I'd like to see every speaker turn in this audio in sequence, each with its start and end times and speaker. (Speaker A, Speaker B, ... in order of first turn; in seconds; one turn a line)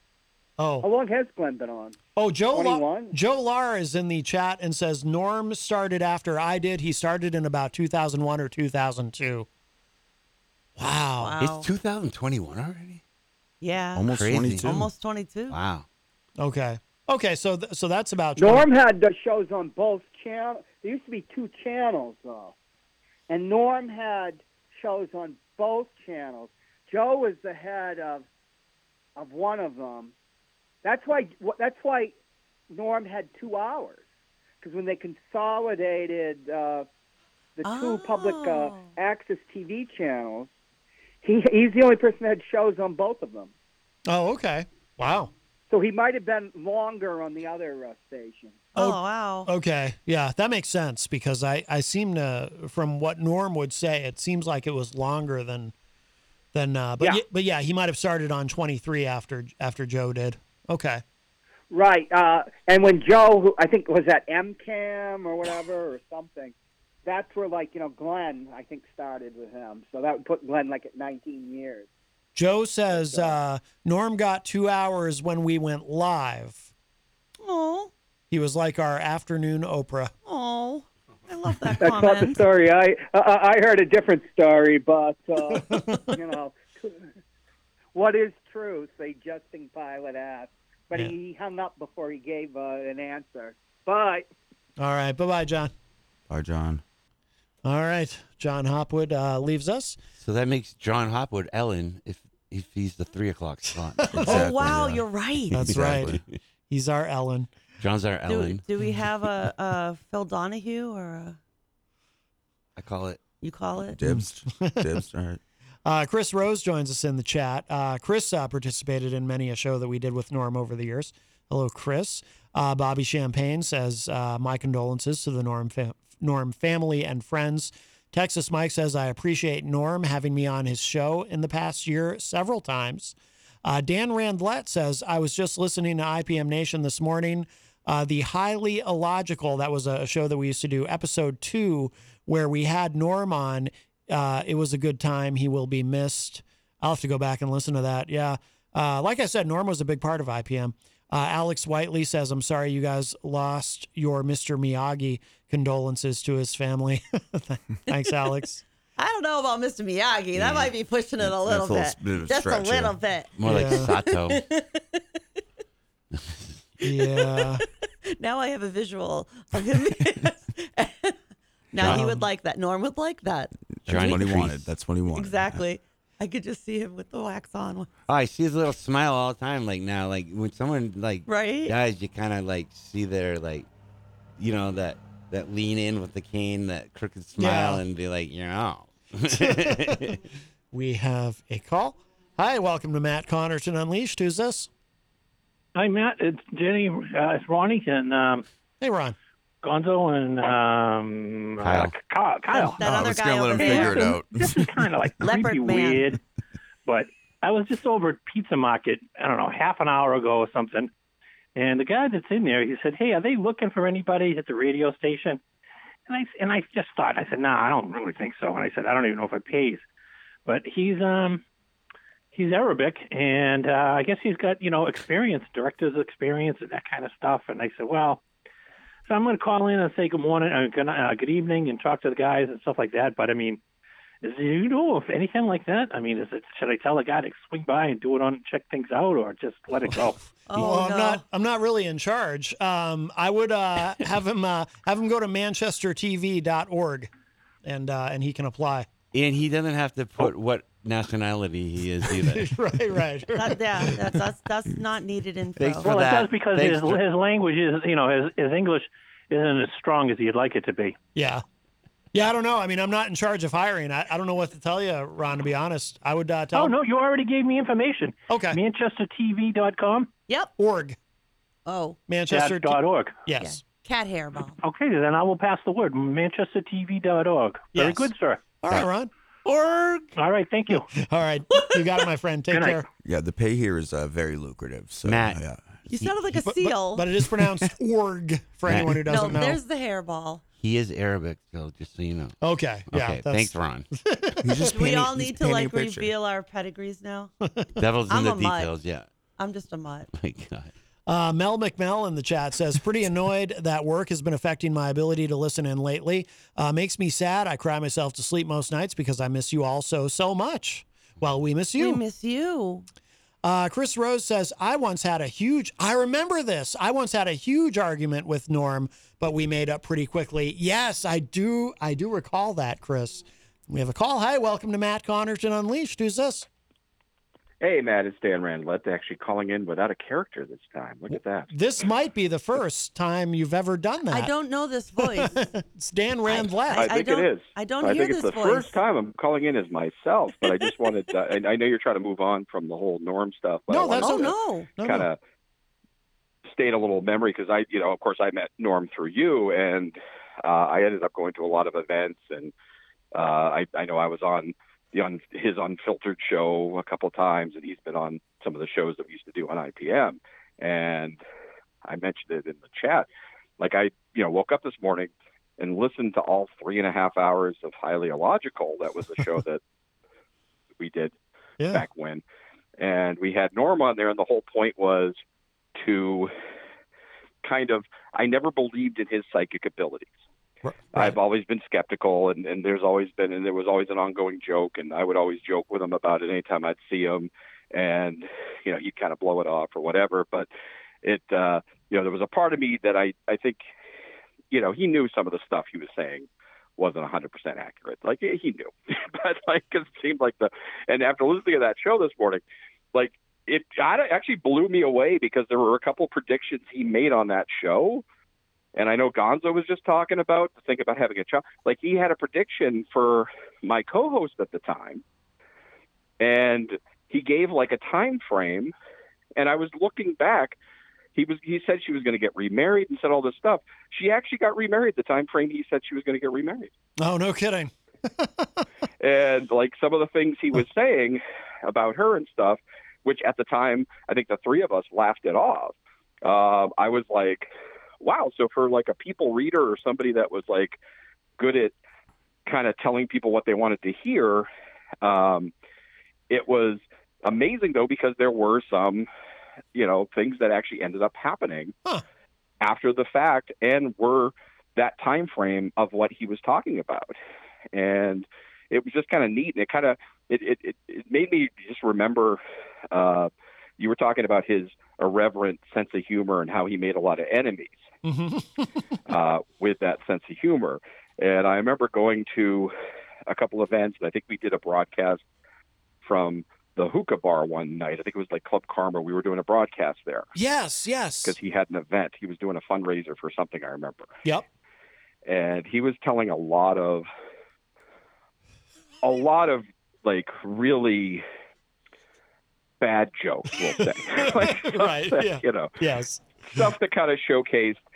Speaker A: 0.6-0.8
Speaker B: 0.8-2.0
Speaker A: 2.1-9.5
Speaker B: 2.5-3.1
Speaker A: 10.8-11.3
Speaker C: 11.2-11.7
Speaker D: 11.4-13.0
Speaker C: 13.6-15.6
Speaker E: 13.9-14.8
Speaker D: 14.1-14.9
Speaker D: 15.5-15.8
Speaker A: 16.4-18.6
Speaker B: 18.4-22.5
Speaker B: 23.3-28.2
Speaker B: 29.2-30.1
Speaker B: 30.8-32.1
Speaker B: 32.7-34.0
Speaker B: 34.6-36.9
Speaker B: 37.6-40.5
Speaker C: 37.6-38.9
Speaker B: 41.2-43.5
Speaker A: 44.1-45.3
Speaker B: 45.7-48.7
Speaker C: 48.7-49.5
Speaker A: 48.7-55.7
Speaker A: 56.5-61.0
Speaker B: 61.7-66.5
Speaker B: 67.0-71.9
Speaker A: 72.3-76.7
Speaker B: 72.9-73.3
Speaker C: 77.4-77.9
Speaker A: 78.3-80.1
Speaker C: 80.2-82.4
Speaker B: 81.8-87.1
Speaker A: 85.6-86.1
Speaker B: 87.9-94.2
Speaker A: 94.8-95.7
Speaker E: 96.3-96.8
Speaker A: 97.6-100.0
Speaker D: 100.2-104.9
Speaker A: 104.0-104.4
Speaker E: 104.1-105.0
Speaker C: 104.2-105.7
Speaker A: 105.5-106.2
Speaker E: 105.6-106.2
Speaker D: 105.7-106.1
Speaker A: 106.7-107.5
Speaker D: 107.8-108.6
Speaker C: 108.3-111.4
Speaker D: 112.8-113.2
Speaker C: 113.4-114.0
Speaker E: 113.9-115.4
Speaker A: 114.0-114.9
Speaker A: 115.8-158.6
Speaker C: 159.0-164.9
Speaker E: 161.2-163.0
Speaker D: 163.4-164.4
Speaker A: 163.4-163.9
Speaker D: 166.1-166.6
Speaker A: 166.8-167.6
Speaker C: 167.0-167.5
Speaker C: 168.1-171.2
Speaker C: 171.7-174.4
Speaker A: 171.9-172.2
Speaker E: 173.8-175.6
Speaker D: 173.9-174.7
Speaker C: 175.1-177.9
Speaker D: 178.1-183.7
Speaker C: 181.2-181.7
Speaker D: 184.4-190.2
Speaker A: 187.4-187.8
Speaker A: 189.3-190.2
Speaker A: 190.7-194.7
Speaker F: 195.8-198.4
Speaker A: 198.8-199.2
Speaker F: 199.6-202.8
Speaker D: 201.6-201.9
Speaker C: 202.5-204.2
Speaker E: 202.8-204.7
Speaker F: 203.6-206.2
Speaker C: 205.2-206.1
Speaker F: 206.8-210.9
Speaker F: 211.6-215.4
Speaker F: 216.1-219.8
Speaker F: 220.4-221.4
Speaker F: 222.3-228.2
Speaker F: 229.1-233.6
Speaker F: 234.2-240.2
Speaker C: 240.5-241.2
Speaker A: 240.5-247.1
Speaker A: 247.6-248.9
Speaker D: 249.1-252.5
Speaker A: 252.1-254.2
Speaker C: 253.3-255.9
Speaker D: 255.6-257.0
Speaker F: 255.8-261.0
Speaker A: 261.1-261.4
Speaker A: 262.1-266.7
Speaker F: 266.5-270.1
Speaker A: 268.3-268.6
Speaker A: 270.6-271.0
Speaker C: 271.6-272.0
Speaker A: 272.1-273.6
Speaker F: 272.3-273.2
Speaker C: 273.4-274.6
Speaker F: 274.6-278.4
Speaker A: 277.7-278.1
Speaker A: 278.6-279.1
Speaker F: 280.1-280.9
Speaker A: 280.9-282.8
Speaker F: 282.5-282.9
Speaker E: 283.0-285.8
Speaker D: 285.0-285.4
Speaker C: 285.9-287.1
Speaker A: 286.4-289.6
Speaker D: 288.7-288.9
Speaker C: 289.1-290.4
Speaker D: 290.6-292.4
Speaker A: 292.4-294.7
Speaker D: 292.9-293.9
Speaker E: 294.4-296.1
Speaker C: 294.5-297.3
Speaker A: 297.4-297.7
Speaker D: 297.8-299.1
Speaker C: 298.1-298.7
Speaker C: 299.4-300.1
Speaker D: 300.1-300.7
Speaker A: 301.1-312.0
Speaker C: 311.8-312.9
Speaker A: 313.4-326.5
Speaker G: 327.6-331.5
Speaker A: 331.1-334.3
Speaker C: 334.1-335.3
Speaker A: 335.0-336.9
Speaker C: 336.2-338.8
Speaker G: 336.7-345.2
Speaker A: 343.7-345.1
Speaker C: 344.0-344.7
Speaker G: 346.4-352.5
Speaker G: 353.1-361.2
Speaker G: 361.8-363.1
Speaker G: 363.6-369.6
Speaker G: 370.8-371.1
Speaker A: 371.6-371.8
Speaker G: 371.7-372.2
Speaker G: 372.8-375.2
Speaker G: 375.8-376.3
Speaker G: 377.4-380.2
Speaker A: 380.6-381.2
Speaker G: 380.9-390.5
Speaker G: 391.0-393.6
Speaker G: 394.5-408.0
Speaker G: 408.8-415.0
Speaker G: 416.2-418.7
Speaker G: 419.4-420.6
Speaker G: 421.1-426.7
Speaker A: 427.0-428.6
Speaker G: 429.0-437.5
Speaker G: 438.0-440.8
Speaker G: 441.4-441.8
Speaker G: 442.4-444.5
Speaker G: 445.0-445.5
Speaker G: 446.3-449.1
Speaker G: 449.7-451.7
Speaker G: 452.6-457.2
Speaker G: 457.7-467.9
Speaker A: 468.0-468.7
Speaker G: 469.1-472.7
Speaker G: 473.3-475.2
Speaker G: 476.0-480.3
Speaker A: 480.3-481.4
Speaker G: 481.2-484.1
Speaker G: 485.2-487.1
Speaker G: 489.0-491.2
Speaker G: 492.8-495.7
Speaker A: 493.8-496.7
Speaker G: 496.5-497.8